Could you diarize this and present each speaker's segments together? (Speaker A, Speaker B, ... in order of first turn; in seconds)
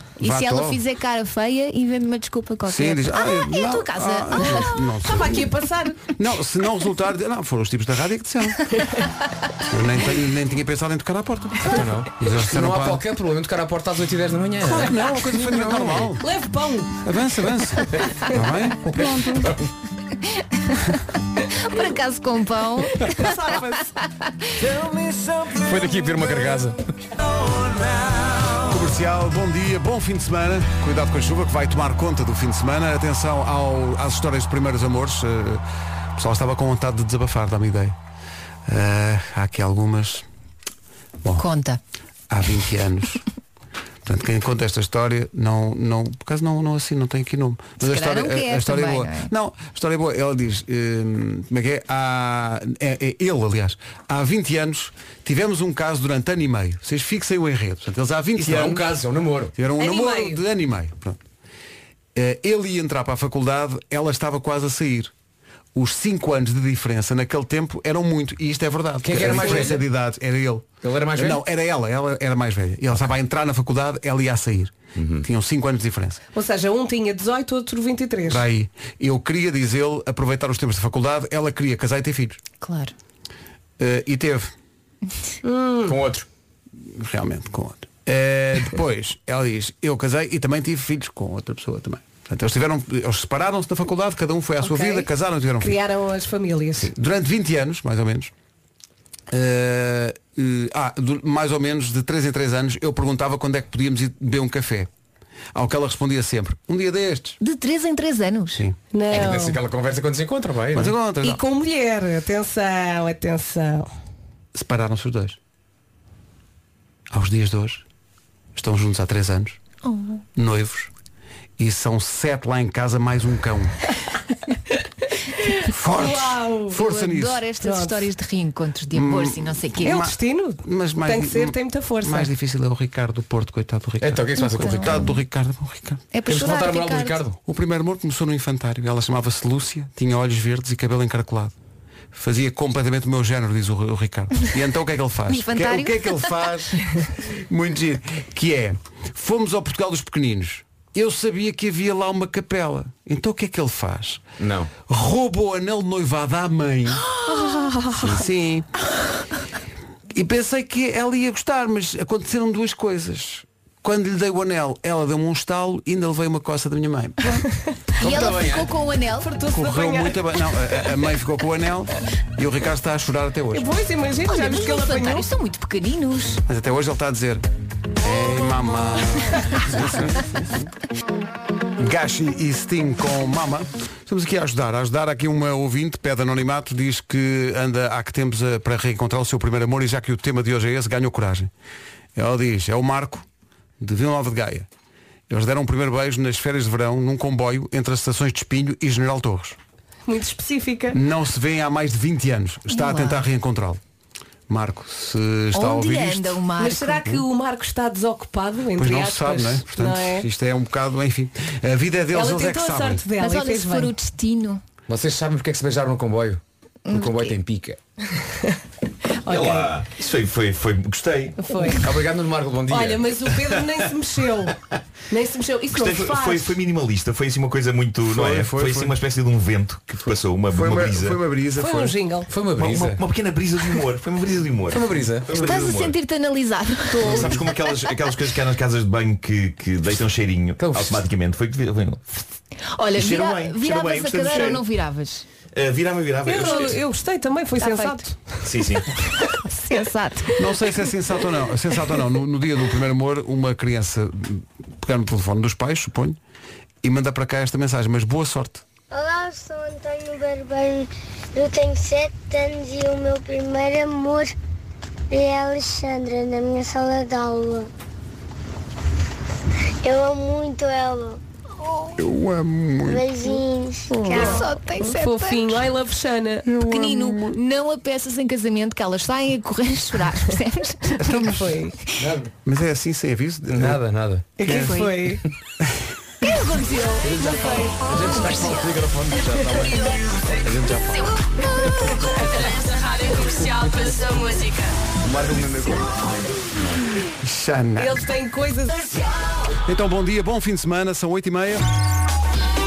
Speaker A: 0.2-0.8, 2.7-5.5, 6.0-8.6, 9.7-13.0, 14.7-16.2, 17.0-19.5, 28.7-35.6, 36.2-38.0, 38.7-40.2, 42.3-43.2, 44.0-59.0, 59.5-61.2, 62.1-65.1, 65.7-76.2, 78.3-82.4, 83.8-84.5, 86.9-95.8, 96.8-98.3, 99.3-104.9, 105.5-107.4, 110.7-111.4, 114.5-115.4, 117.1-117.8, 118.5-119.6, 120.3-120.9, 121.6-123.9, 125.7-127.4, 128.9-136.0, 137.4-141.5, 142.1-154.2, 154.9-157.1, 158.0-158.7, 160.1-167.5, 169.5-173.7, 176.5-177.4, 178.0-180.7, 181.8-191.5, 192.2-193.3, 193.8-194.7, 195.3-199.6, 200.9-203.8, 204.5-206.4, 208.8-213.1, 228.1-229.0, 230.5-231.9, 250.4-256.2, 256.8-258.6, 272.0-273.1, 276.5-277.4, 281.0-281.6, 282.4-283.8, 284.4-284.8, 297.2-298.1, 299.6-301.6
Speaker B: 0.2-4.8, 20.4-20.9, 21.5-23.6, 41.4-41.8, 47.8-49.3, 82.6-82.9, 107.4-108.6, 119.8-120.2, 126.8-130.0, 134.4-135.2, 136.1-137.3, 145.3-146.3, 157.5-157.8, 168.0-169.3, 174.2-176.4, 202.7-203.2, 205.5-207.0, 213.2-214.6, 216.9-217.3, 235.3-237.8, 242.7-245.2, 246.4-246.7, 247.6-248.0, 249.4-250.5, 274.0-275.7, 276.6-281.3, 284.5-285.0, 286.2-288.6
Speaker C: 4.4-6.0, 14.6-15.2, 16.2-17.0, 23.0-23.9, 59.8-60.4, 69.3-69.7, 76.3-78.4, 94.6-96.9, 108.9-109.6, 111.2-113.9, 125.9-126.8, 127.6-128.1, 129.8-132.3, 157.3-158.1, 169.2-170.2, 173.5-175.3, 200.1-201.0, 206.6-210.3, 212.1-213.9, 218.3-218.5, 219.2-219.7, 221.4-221.9, 222.7-224.6, 225.1-226.6, 231.6-232.3, 236.9-237.4, 246.2-248.2, 273.9-276.5, 281.2-281.8, 284.4-285.2, 297.8-298.9
Speaker D: 11.7-16.1, 19.0-19.7, 24.8-27.1, 58.4-59.5, 69.0-69.9, 70.8-71.4, 75.0-75.3, 85.8-86.3, 109.1-111.0, 134.0-135.1, 136.3-137.4, 154.4-154.7, 168.0-168.7, 214.9-217.8, 221.8-223.4, 232.3-233.0, 234.7-235.3, 240.6-241.0, 282.0-282.3, 283.5-284.3, 287.0-292.5, 293.3-294.2, 295.0-296.7
Speaker E: 219.3-221.4, 225.7-231.2, 232.6-236.0, 237.0-242.0, 243.0-244.7, 245.5-246.8, 248.4-248.9
Speaker F: 258.9-264.3, 265.1-267.7, 269.8-271.2, 272.8-274.5